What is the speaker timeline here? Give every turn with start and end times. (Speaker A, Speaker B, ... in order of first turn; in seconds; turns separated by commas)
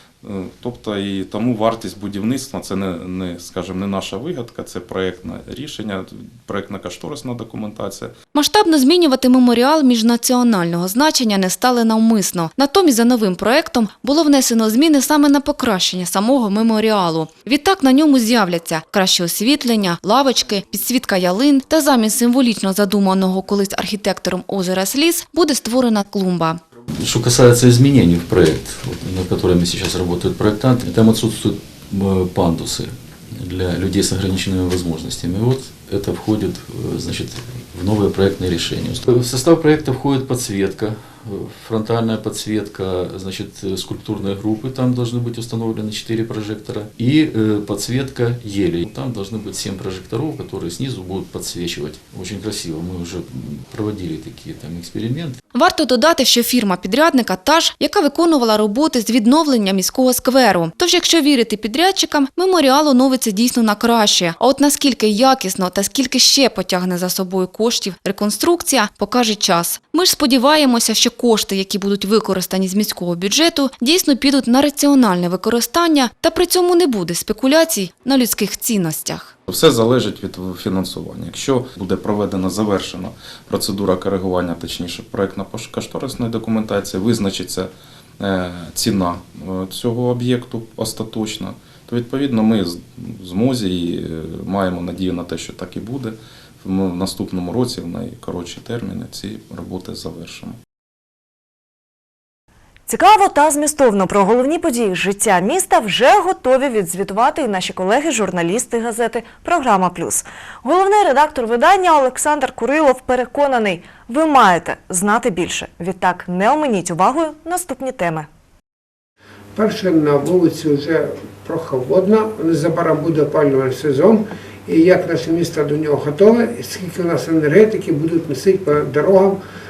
Speaker A: 0.2-8.1, Speaker B: 8.3-26.6, Speaker C: 26.9-55.4, Speaker B: 55.5-79.3, Speaker A: 79.5-100.6, Speaker D: 102.9-118.3, Speaker E: 119.5-129.4